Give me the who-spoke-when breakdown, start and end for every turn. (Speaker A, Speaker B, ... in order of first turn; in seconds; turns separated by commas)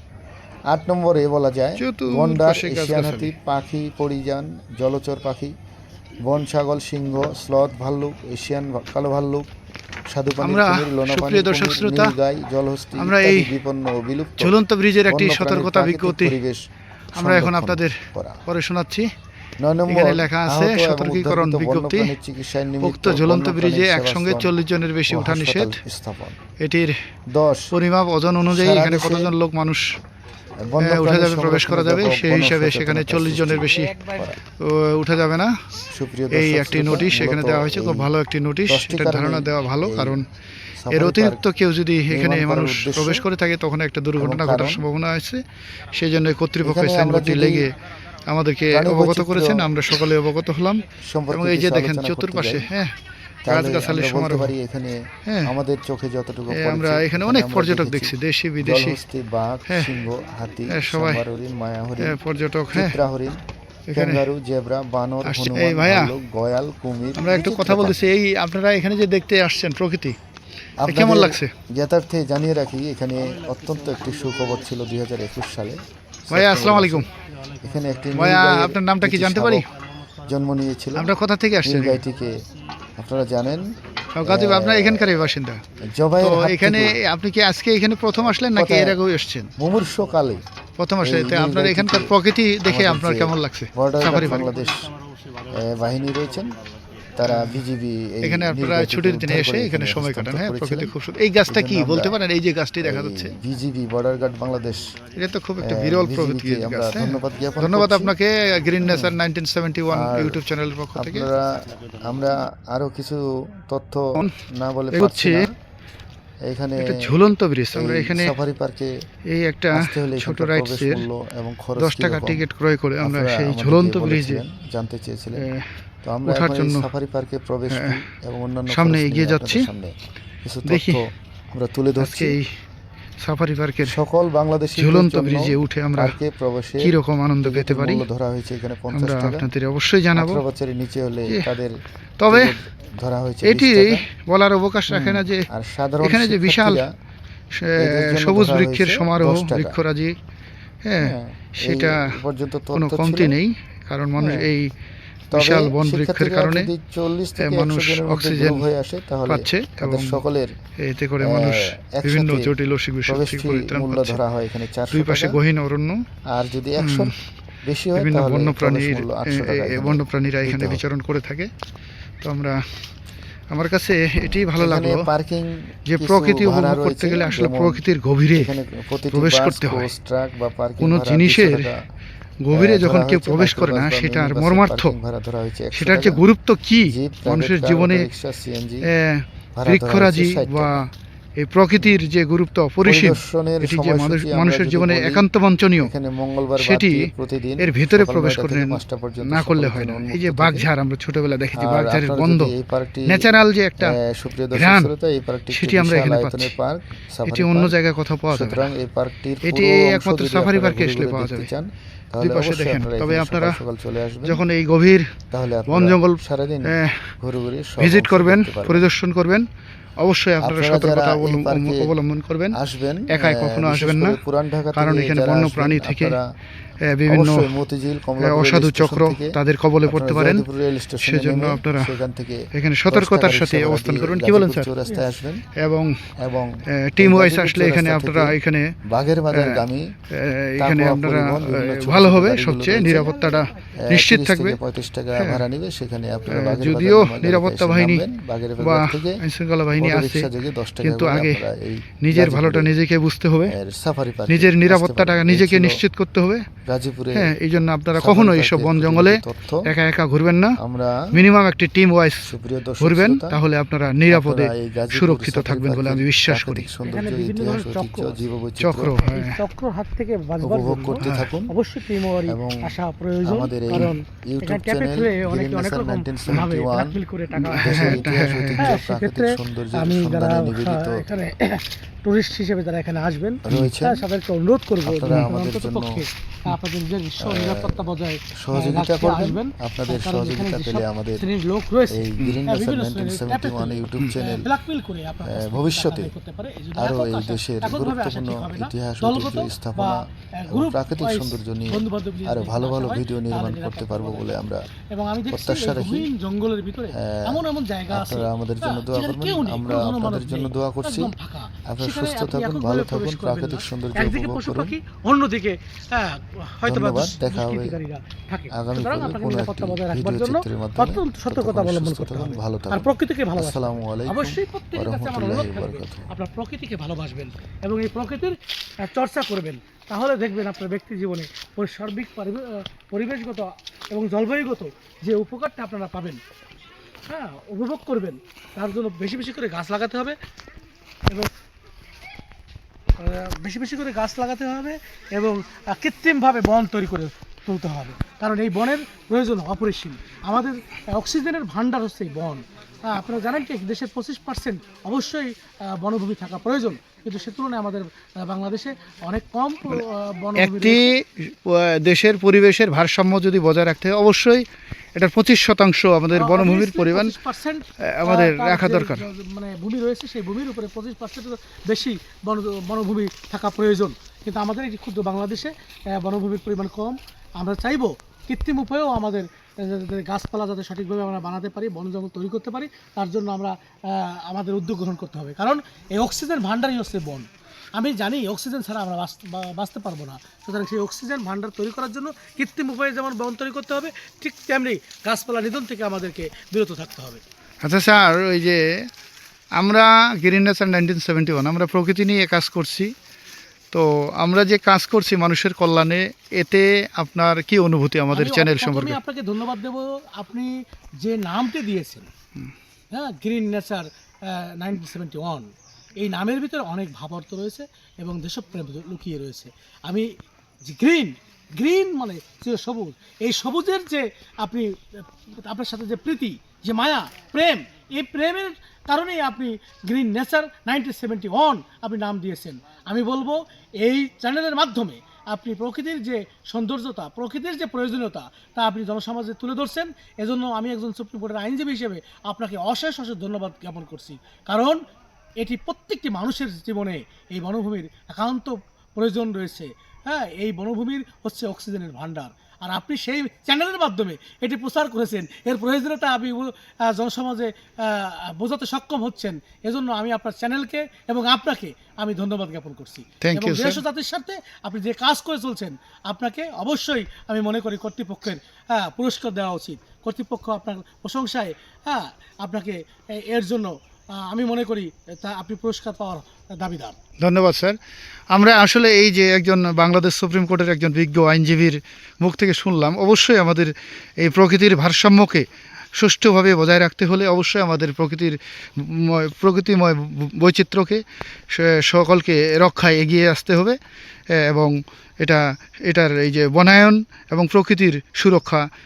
Speaker A: 0.7-5.5, Speaker B: 1.8-3.3, Speaker A: 6.2-9.5, Speaker A: 10.1-14.6, Speaker B: 10.4-12.1, Speaker B: 13.0-13.5, Speaker B: 14.4-16.4, Speaker A: 15.1-16.6, Speaker B: 17.1-19.1, Speaker A: 17.1-18.4, Speaker A: 19.6-24.5, Speaker B: 19.9-22.1, Speaker B: 22.8-25.8, Speaker A: 25.1-26.4, Speaker B: 26.6-27.0, Speaker A: 27.3-27.7, Speaker B: 27.7-30.0, Speaker A: 28.5-29.3, Speaker A: 30.6-34.4, Speaker B: 30.8-35.6, Speaker A: 35.9-38.1, Speaker B: 36.3-40.2, Speaker A: 38.7-40.2, Speaker A: 40.8-41.4, Speaker B: 40.9-45.4, Speaker A: 42.1-43.2, Speaker A: 44.2-44.9, Speaker B: 45.9-47.7, Speaker A: 46.6-47.7, Speaker B: 48.3-52.9, Speaker A: 48.7-49.9, Speaker A: 51.0-52.7, Speaker A: 53.4-62.2, Speaker B: 53.5-54.5, Speaker B: 55.2-55.5, Speaker B: 56.5-59.0, Speaker B: 60.7-61.2, Speaker B: 62.0-63.0, Speaker A: 62.7-63.4, Speaker B: 63.9-64.2, Speaker A: 63.9-68.0, Speaker B: 65.2-66.1, Speaker B: 67.2-70.2, Speaker A: 70.8-77.1, Speaker B: 70.9-71.5, Speaker B: 76.3-77.1, Speaker A: 77.6-79.6, Speaker B: 78.1-79.6, Speaker A: 80.2-82.4, Speaker B: 81.0-82.0, Speaker A: 83.0-85.1, Speaker B: 84.1-85.6, Speaker A: 85.8-87.0, Speaker B: 86.2-89.5, Speaker A: 88.2-89.0, Speaker A: 89.6-90.4, Speaker B: 90.8-94.5, Speaker A: 91.0-92.1, Speaker A: 92.6-94.9, Speaker A: 95.5-96.5, Speaker A: 97.2-100.9, Speaker B: 97.2-97.6, Speaker B: 98.2-103.4, Speaker A: 101.5-102.2, Speaker A: 102.8-105.0, Speaker B: 105.1-111.3, Speaker A: 105.6-108.1, Speaker A: 108.8-109.2, Speaker A: 109.9-110.4, Speaker A: 110.9-115.5, Speaker B: 114.9-115.5, Speaker A: 116.5-117.1, Speaker B: 116.8-118.3, Speaker A: 117.7-118.9, Speaker B: 119.3-121.0, Speaker A: 119.7-122.4, Speaker B: 121.8-124.4, Speaker A: 123.0-125.5, Speaker B: 125.4-125.7, Speaker A: 126.0-129.9, Speaker B: 126.2-126.9, Speaker B: 127.7-128.0, Speaker B: 128.7-129.7, Speaker A: 130.4-132.4, Speaker B: 130.7-131.0, Speaker B: 132.0-132.5, Speaker B: 133.2-134.0, Speaker A: 133.8-139.5, Speaker B: 134.8-136.1, Speaker B: 136.8-138.1, Speaker B: 138.9-140.4, Speaker A: 140.1-141.7, Speaker B: 142.2-142.5, Speaker A: 142.3-144.0, Speaker B: 143.4-145.4, Speaker A: 144.9-146.9, Speaker B: 146.0-146.8, Speaker B: 147.5-150.2, Speaker A: 147.8-149.8, Speaker B: 150.8-152.2, Speaker A: 151.0-153.4, Speaker B: 152.7-154.7, Speaker A: 154.2-154.5, Speaker A: 155.3-160.5, Speaker B: 155.3-156.7, Speaker B: 157.4-158.6, Speaker B: 159.3-160.2, Speaker B: 160.8-164.2, Speaker A: 161.2-162.5, Speaker A: 163.1-165.4, Speaker B: 164.9-166.0, Speaker A: 166.3-167.1, Speaker B: 166.8-167.1, Speaker A: 167.6-170.8, Speaker B: 167.9-171.5, Speaker B: 172.2-172.6, Speaker B: 173.5-175.1, Speaker A: 174.2-181.8, Speaker B: 175.9-178.5, Speaker B: 179.1-179.9, Speaker B: 180.8-181.7, Speaker B: 182.4-184.9, Speaker A: 182.5-186.2, Speaker B: 185.7-188.1, Speaker A: 186.8-188.9, Speaker B: 188.9-195.9, Speaker A: 189.5-190.8, Speaker A: 192.8-200.7, Speaker B: 196.6-202.5, Speaker A: 201.5-203.3, Speaker B: 203.1-204.0, Speaker A: 203.8-207.8, Speaker B: 204.5-204.9, Speaker B: 205.5-206.5, Speaker B: 207.3-208.7, Speaker A: 208.3-214.4, Speaker B: 209.4-211.5, Speaker B: 212.2-213.6, Speaker B: 214.2-215.1, Speaker A: 215.3-218.9, Speaker B: 215.7-217.1, Speaker B: 217.8-219.4, Speaker B: 220.0-222.6, Speaker A: 220.4-221.9, Speaker A: 222.5-226.2, Speaker B: 223.1-224.2, Speaker B: 224.7-226.2, Speaker B: 226.9-227.6, Speaker A: 227.1-235.4, Speaker B: 228.2-230.4, Speaker B: 231.0-231.9, Speaker B: 232.5-234.7, Speaker B: 235.6-236.1, Speaker A: 236.2-238.3, Speaker B: 236.7-238.7, Speaker A: 238.9-239.9, Speaker B: 239.3-244.6, Speaker A: 240.6-243.2, Speaker A: 243.7-249.2, Speaker B: 245.2-245.4, Speaker B: 246.3-248.0, Speaker B: 248.6-251.4, Speaker A: 249.8-252.7, Speaker B: 252.0-253.5, Speaker A: 253.4-255.8, Speaker B: 254.3-256.5, Speaker A: 256.6-257.3, Speaker B: 257.1-260.6, Speaker A: 257.9-259.7, Speaker A: 260.6-261.2, Speaker B: 261.1-262.3, Speaker A: 262.2-263.4, Speaker B: 262.8-266.7, Speaker A: 264.1-269.0, Speaker C: 266.8-268.2, Speaker B: 268.6-269.3, Speaker C: 269.0-278.1, Speaker A: 270.4-271.5, Speaker B: 271.0-271.3, Speaker A: 272.3-272.6, Speaker A: 273.2-277.0, Speaker B: 277.4-278.8, Speaker A: 277.5-281.0, Speaker C: 278.6-304.3, Speaker A: 283.4-284.1, Speaker A: 284.8-286.0, Speaker A: 287.2-287.8, Speaker A: 288.4-291.2, Speaker A: 291.9-294.5, Speaker B: 292.2-292.4, Speaker A: 295.2-296.1, Speaker A: 296.8-304.6, Speaker C: 304.9-336.2, Speaker A: 305.3-306.1, Speaker A: 306.9-311.1, Speaker A: 311.7-314.8, Speaker A: 316.6-317.7, Speaker A: 318.5-326.1, Speaker C: 337.1-340.2, Speaker C: 343.0-360.9, Speaker B: 360.4-367.1, Speaker C: 366.1-397.2, Speaker B: 367.8-369.0, Speaker B: 397.6-398.8, Speaker B: 399.6-402.9, Speaker B: 403.7-409.0, Speaker C: 408.1-412.1, Speaker C: 412.9-420.1, Speaker C: 420.6-444.8, Speaker C: 445.4-476.9, Speaker B: 463.2-463.8, Speaker B: 477.2-477.8, Speaker B: 478.3-493.8, Speaker B: 494.3-498.7